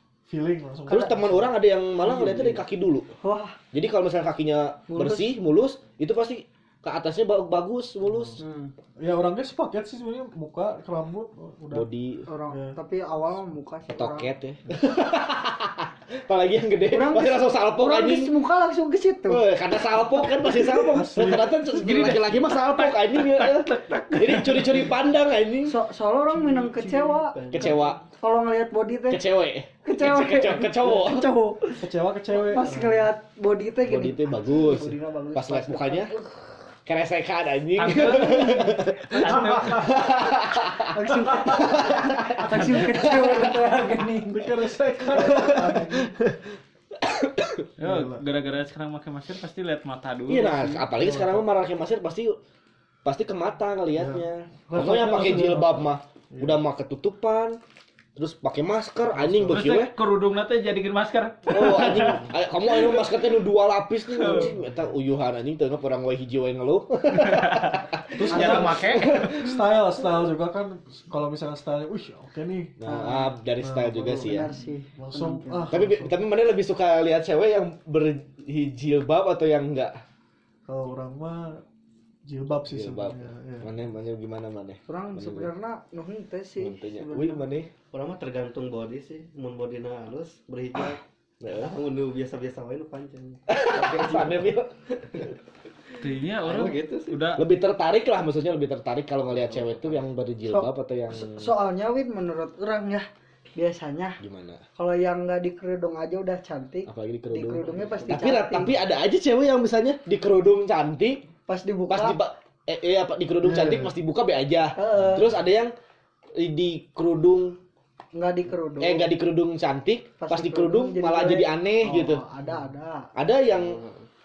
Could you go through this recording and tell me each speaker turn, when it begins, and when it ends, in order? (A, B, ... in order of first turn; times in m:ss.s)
0:00.3-0:01.5 A
0:00.9-0:03.1 B
0:00.9-0:01.1 C
0:02.0-0:02.6 A
0:03.2-0:03.6 C
0:03.7-0:08.4 B
0:04.9-0:05.3 C
0:08.1-0:08.4 A
0:08.4-0:08.7 C
0:09.0-0:11.9 A
0:11.7-0:12.3 B
0:12.3-0:14.3 C
0:12.5-0:12.8 A
0:13.9-0:18.4 B
0:16.9-0:19.4 C
0:19.3-0:25.8 B
0:20.5-0:21.5 A
0:21.7-0:24.9 D
0:25.6-0:29.2 C
0:26.3-0:28.0 E
0:27.5-0:28.0 B
0:29.1-0:31.4 B
0:29.8-0:31.8 C
0:31.8-0:33.1 A
0:32.3-0:36.6 C
0:33.8-0:36.1 B
0:36.9-0:43.7 B
0:37.8-0:40.0 D
0:40.9-0:46.0 C
0:44.3-0:46.3 A
0:45.2-0:45.9 B
0:47.0-0:47.6 B
0:47.8-0:50.8 D
0:47.8-0:48.2 A
0:50.3-0:52.4 B
0:50.9-0:51.4 A
0:53.0-0:57.6 B
0:54.0-0:56.6 A
0:58.2-0:59.9 B
0:59.1-0:59.7 A
0:59.5-1:03.1 D
1:01.5-1:09.6 B
1:04.1-1:04.6 D
1:07.2-1:09.6 D
1:08.2-1:12.8 A
1:08.4-1:08.6 C
1:12.8-1:14.5 B
1:12.9-1:13.3 C
1:13.6-1:14.4 A
1:14.1-1:15.7 C
1:15.0-1:16.2 A
1:15.7-1:20.0 B
1:20.7-1:21.6 A
1:22.3-1:23.7 A
1:22.7-1:25.5 B
1:24.9-1:27.6 C
1:26.6-1:27.7 B
1:27.9-1:35.3 E
1:31.4-1:31.8 B
1:33.5-1:34.7 B
1:36.0-1:37.4 D
1:36.3-1:37.3 E
1:37.4-1:41.6 B
1:39.3-1:40.0 E
1:40.5-1:43.0 C
1:43.6-1:44.2 C
1:44.2-1:44.6 B
1:44.8-1:48.8 C
1:46.9-1:51.2 B
1:47.7-1:48.3 E
1:51.5-1:52.2 C
1:51.9-1:55.7 B
1:54.8-1:55.4 C
1:56.4-1:57.6 B
1:58.2-1:59.1 C
1:58.8-2:02.2 B
2:00.2-2:03.1 C
2:03.2-2:03.8 B
2:03.5-2:04.1 E